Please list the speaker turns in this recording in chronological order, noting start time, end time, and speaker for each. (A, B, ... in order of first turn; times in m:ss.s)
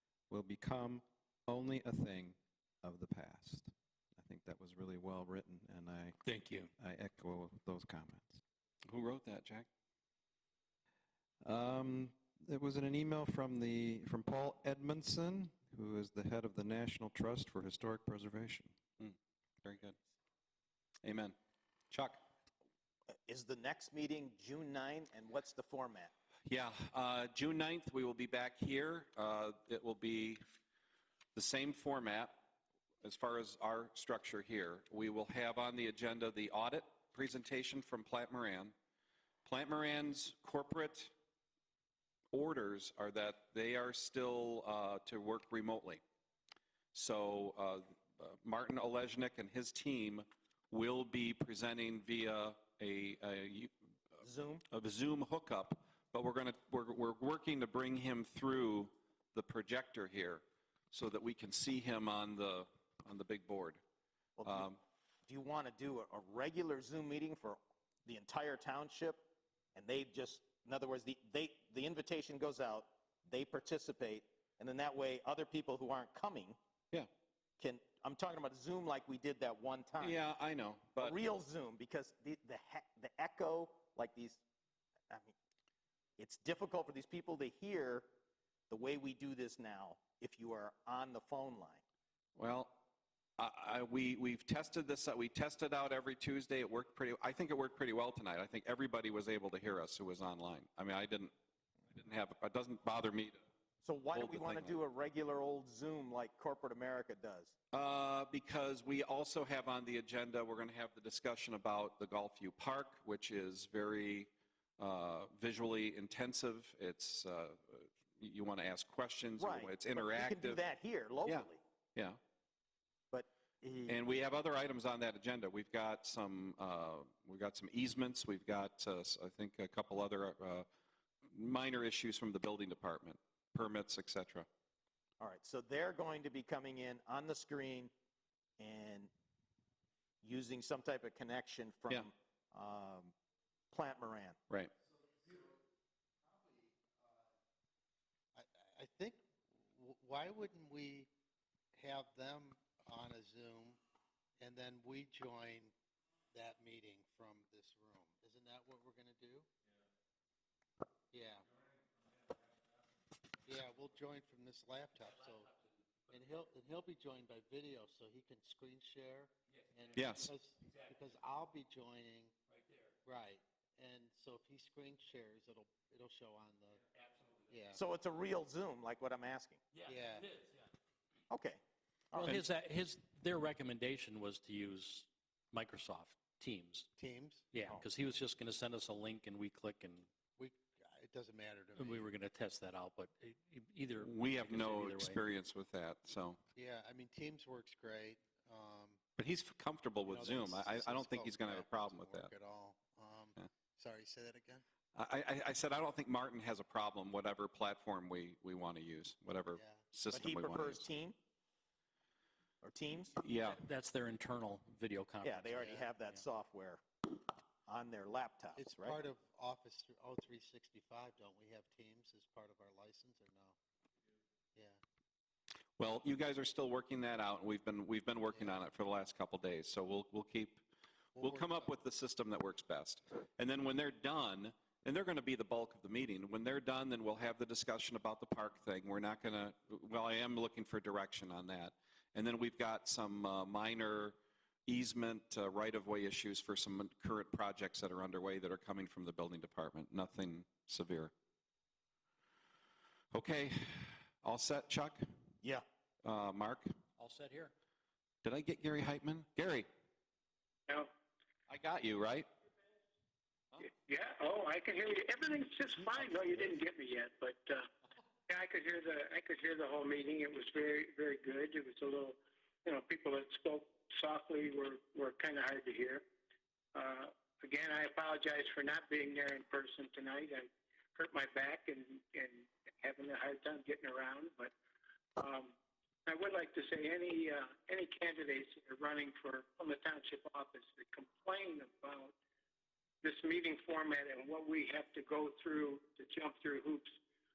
0:00.3-0:08.4 A
0:08.9-0:09.7 B
0:11.4-0:18.7 A
0:19.0-0:20.0 B
0:21.0-0:21.3 B
0:21.9-0:22.2 B
0:23.3-0:26.1 C
0:26.4-0:30.4 B
0:31.3-0:32.3 B
0:33.0-0:38.7 B
0:39.4-0:41.1 B
0:42.3-0:46.0 B
0:46.9-0:53.7 B
0:54.2-0:54.6 C
0:54.7-1:03.8 B
1:04.4-1:04.7 C
1:04.4-1:04.8 B
1:05.2-1:16.6 C
1:17.6-1:20.2 C
1:20.0-1:21.2 B
1:21.0-1:24.4 C
1:26.2-1:28.1 C
1:28.7-1:31.8 C
1:32.4-1:32.8 B
1:33.4-1:41.3 B
1:41.9-1:43.4 B
1:43.8-1:47.5 C
1:44.1-1:44.8 B
1:47.7-2:00.6 B
1:59.4-2:01.6 C
2:01.2-2:02.2 B
2:03.1-2:04.0 C
2:03.9-2:10.7 B
2:11.3-2:14.5 B
2:15.2-2:17.9 C
2:18.6-2:19.1 C
2:20.2-2:23.1 C
2:23.7-2:24.4 C
2:24.9-2:25.6 D
2:26.2-2:27.0 D
2:28.3-2:31.1 D
2:31.7-2:33.8 D
2:34.4-2:35.7 D
2:36.3-2:39.5 D
2:41.1-2:41.5 D
2:43.4-2:45.5 D
2:46.1-2:52.3 D
2:50.0-2:50.3 B
2:52.6-2:52.9 E
2:53.0-2:56.8 D
2:57.1-2:57.4 E
2:57.5-2:57.8 D
2:57.7-2:59.6 C
2:59.8-3:00.6 E
2:59.9-3:00.3 D
3:01.3-3:01.6 C
3:02.1-3:02.4 C
3:02.1-3:06.9 E
3:07.0-3:07.5 D
3:07.5-3:10.1 E
3:10.4-3:12.1 D
3:11.8-3:15.2 E
3:14.0-3:16.4 B
3:16.6-3:19.0 D
3:19.2-3:22.3 B
3:20.1-3:24.6 D
3:25.0-3:30.9 B
3:29.5-3:29.8 D
3:30.1-3:31.2 C
3:32.6-3:33.2 C
3:33.2-3:33.6 B
3:33.3-3:35.9 E
3:35.2-3:39.0 C
3:38.6-3:43.6 D
3:45.8-3:50.6 B
3:48.3-3:48.6 D
3:51.2-3:51.7 D
3:51.2-4:04.2 B
4:04.7-4:11.1 B
4:13.1-4:15.0 B
4:16.0-4:16.7 B
4:17.0-4:17.5 E
4:18.2-4:19.7 B
4:21.5-4:22.3 B
4:23.6-4:27.7 F
4:28.3-4:36.0 F
4:36.7-4:44.5 F
4:45.2-4:45.5 F
4:46.1-4:52.1 F
4:53.0-4:56.9 F